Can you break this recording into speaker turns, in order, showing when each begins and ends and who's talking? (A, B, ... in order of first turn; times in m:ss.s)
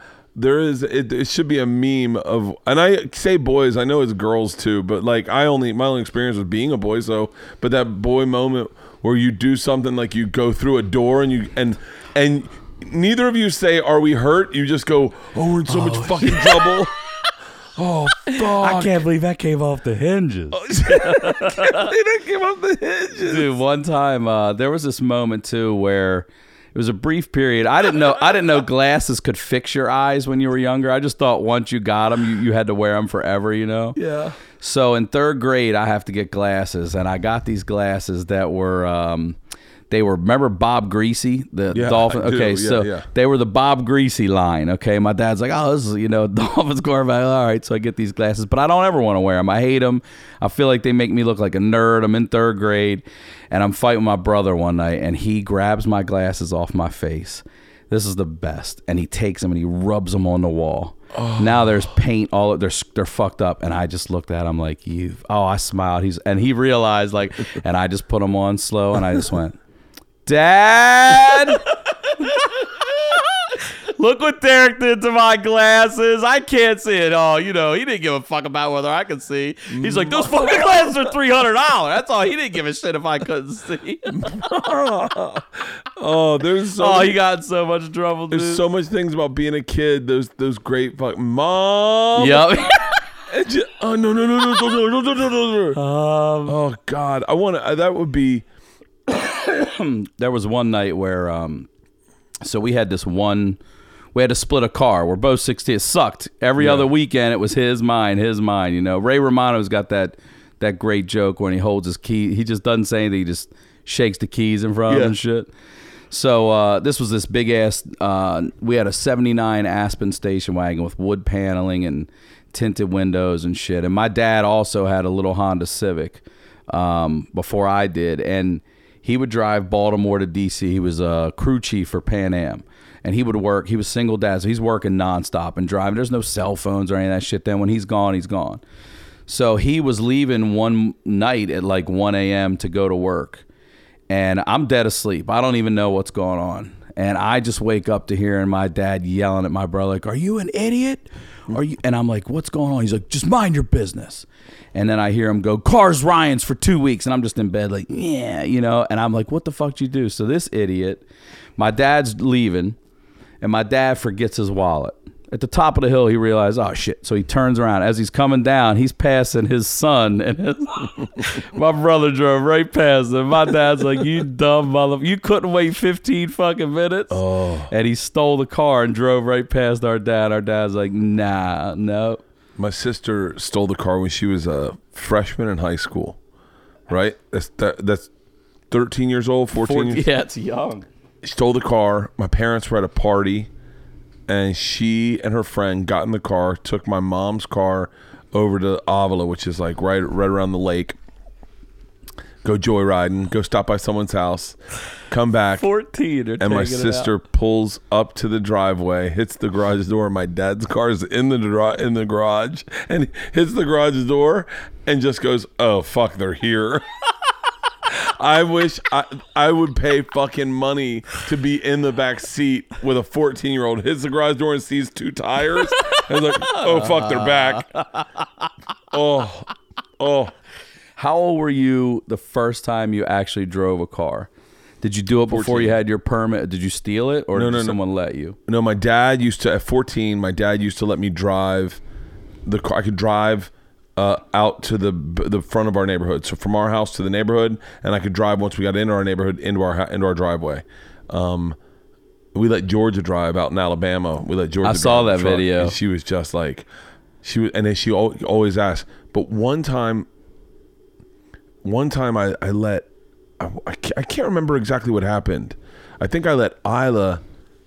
0:00.3-0:16.9 A
0:15.7-0:16.8 B
0:17.8-0:19.0 A
0:18.3-0:21.9 B
0:20.5-0:23.5 A
0:23.2-0:34.0 B
0:33.9-0:34.4 A
0:34.6-0:39.4 B
0:39.9-1:09.6 B
0:41.7-0:43.1 A
1:01.1-1:01.7 A
1:10.2-1:24.2 B
1:19.7-1:20.8 A
1:24.1-1:27.2 A
1:26.8-1:28.6 B
1:28.3-1:35.8 A
1:32.2-1:33.0 B
1:35.7-1:36.6 B
1:36.4-1:38.4 A
1:39.1-1:41.7 B
1:42.4-1:43.6 B
1:44.1-1:55.5 B
1:46.6-1:46.9 A
1:54.9-1:55.2 A
1:56.1-2:18.6 B
2:19.3-2:23.4 B
2:24.1-2:41.0 B
2:41.6-2:42.8 B
2:43.4-2:57.2 B
2:57.1-2:57.7 A
2:57.7-3:02.2 B
3:02.6-3:06.2 A
3:06.9-3:08.1 A
3:08.7-3:10.0 A
3:09.6-3:10.8 B
3:11.2-3:13.5 A
3:14.3-3:21.0 A
3:22.4-3:24.6 A
3:25.1-3:25.7 A
3:25.6-3:27.1 B
3:26.4-3:36.8 A
3:37.9-3:47.7 A
3:45.9-3:48.1 B
3:48.9-3:50.3 A
3:51.0-3:54.3 B
3:54.8-3:58.4 B
3:55.3-3:55.8 A
3:57.3-3:57.8 A
3:58.5-4:01.8 A
4:02.4-4:11.6 A
4:12.3-4:16.7 A
4:14.6-4:15.8 B
4:17.2-4:20.1 A
4:21.6-4:22.9 A
4:23.4-4:27.2 A